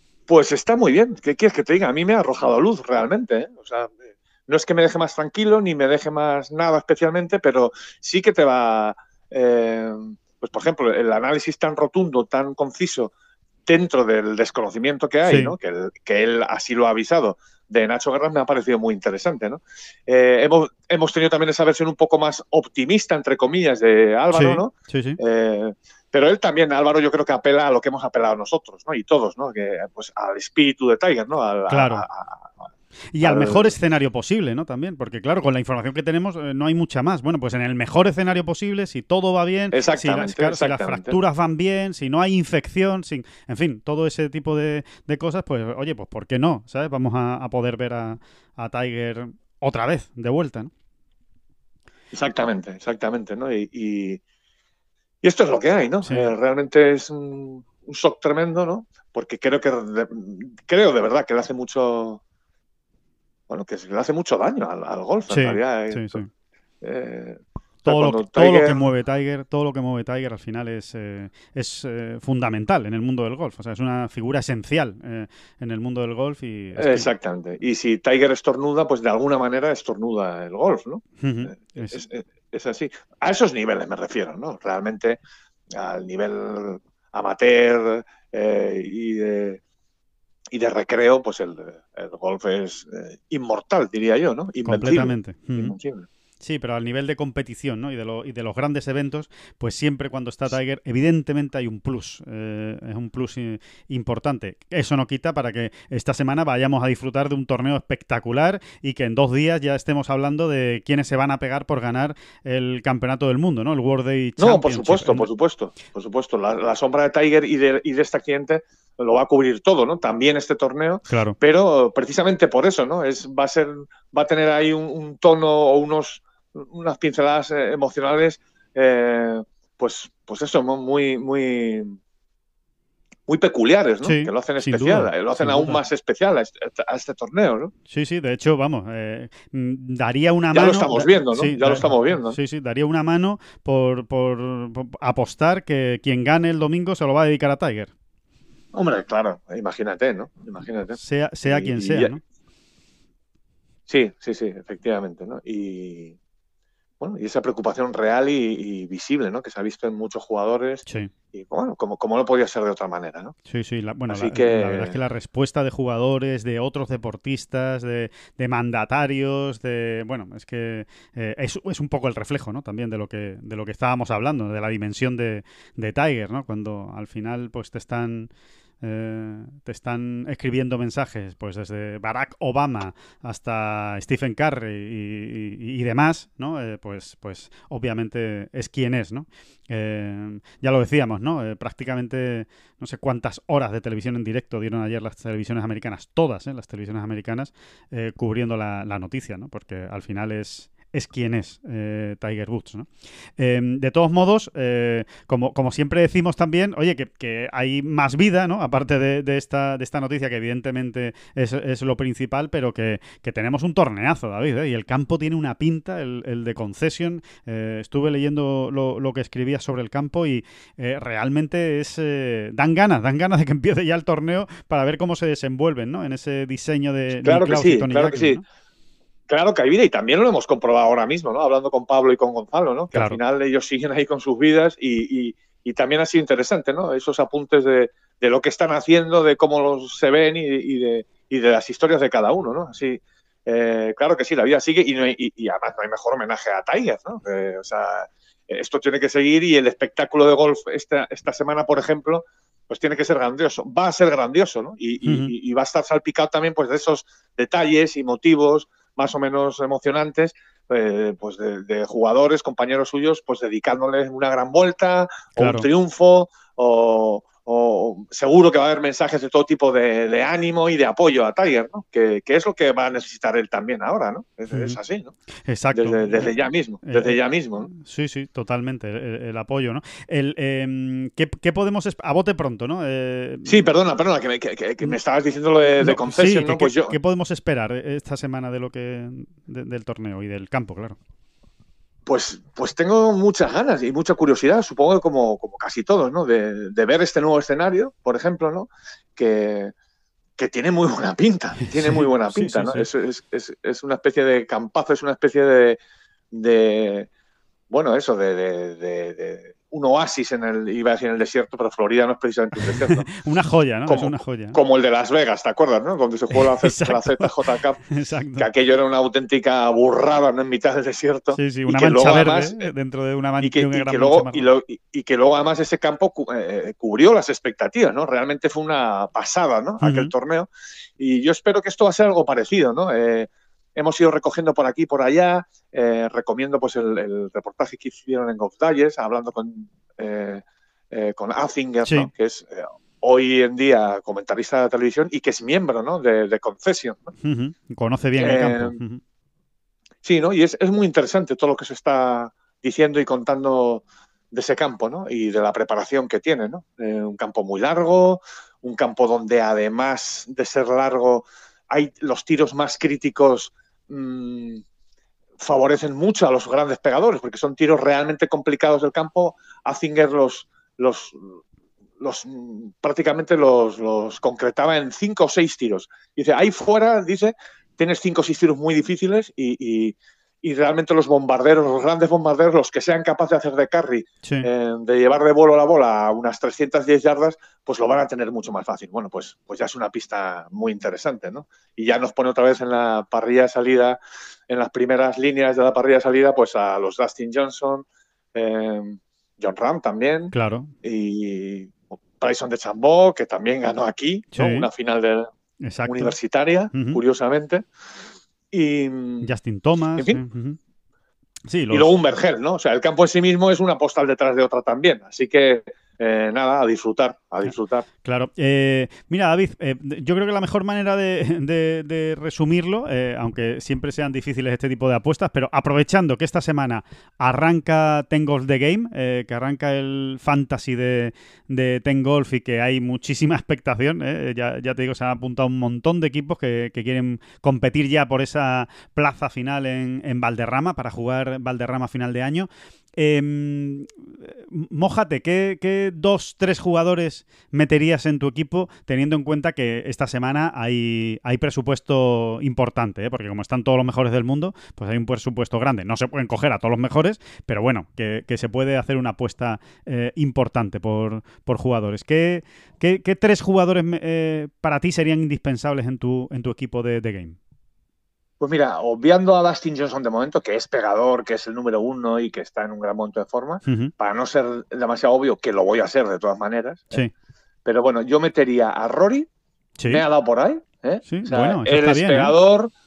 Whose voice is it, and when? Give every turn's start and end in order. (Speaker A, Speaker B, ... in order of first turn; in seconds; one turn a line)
Speaker A: 0.3-13.1
Speaker A: 13.7-32.5
Speaker B: 15.2-15.6
Speaker B: 24.3-25.2
Speaker B: 31.7-32.1
Speaker B: 33.1-50.7
Speaker A: 33.2-33.8
Speaker A: 39.7-41.2
Speaker A: 52.1-54.2
Speaker A: 55.2-62.2
Speaker B: 56.0-56.3
Speaker A: 63.5-66.2
Speaker B: 65.3-66.3
Speaker A: 66.8-68.8
Speaker B: 67.8-77.1
Speaker A: 76.8-85.2
Speaker B: 81.2-82.0
Speaker A: 85.7-89.6
Speaker A: 90.5-96.1
Speaker B: 94.7-95.8
Speaker B: 96.4-115.3
Speaker A: 114.4-132.0
Speaker B: 121.1-121.4
Speaker A: 133.3-137.7
Speaker B: 134.0-135.8
Speaker B: 137.9-147.9
Speaker A: 140.5-142.4
Speaker A: 148.7-152.1
Speaker B: 151.0-152.2
Speaker A: 153.9-156.2
Speaker A: 157.0-163.3
Speaker B: 160.9-161.1
Speaker B: 163.5-178.3
Speaker A: 164.1-165.0
Speaker B: 178.8-228.4
Speaker A: 227.2-228.4
Speaker A: 229.3-275.1
Speaker B: 232.9-233.2
Speaker B: 255.0-255.3
Speaker B: 265.4-265.7
Speaker B: 274.5-274.8
Speaker B: 275.5-276.3
Speaker A: 275.7-277.7
Speaker B: 276.8-277.2
Speaker B: 277.7-283.6
Speaker A: 283.4-286.9
Speaker B: 285.8-291.0
Speaker A: 292.1-299.7
Speaker A: 300.4-305.8
Speaker B: 301.7-302.9
Speaker A: 306.3-307.1
Speaker A: 307.7-313.1
Speaker B: 312.9-314.6
Speaker A: 313.9-317.8
Speaker B: 316.4-317.3
Speaker B: 317.9-318.5
Speaker A: 318.4-322.7
Speaker B: 321.3-324.5
Speaker A: 323.4-347.1
Speaker B: 329.8-330.1
Speaker B: 341.8-342.1
Speaker B: 347.2-349.0
Speaker A: 348.2-348.8
Speaker A: 350.0-364.6
Speaker A: 365.4-371.4
Speaker A: 372.0-405.3
Speaker B: 400.3-400.7
Speaker B: 404.3-404.7
Speaker B: 405.6-406.2
Speaker A: 405.9-407.6
Speaker B: 406.7-407.0
Speaker A: 408.5-409.3
Speaker B: 409.2-410.6
Speaker A: 410.0-410.2
Speaker B: 411.5-411.9
Speaker A: 411.7-417.9
Speaker B: 418.0-467.4
Speaker A: 468.4-477.0
Speaker B: 473.6-473.9
Speaker A: 477.6-479.3
Speaker B: 479.8-480.0
Speaker A: 479.9-482.7
Speaker B: 481.1-482.4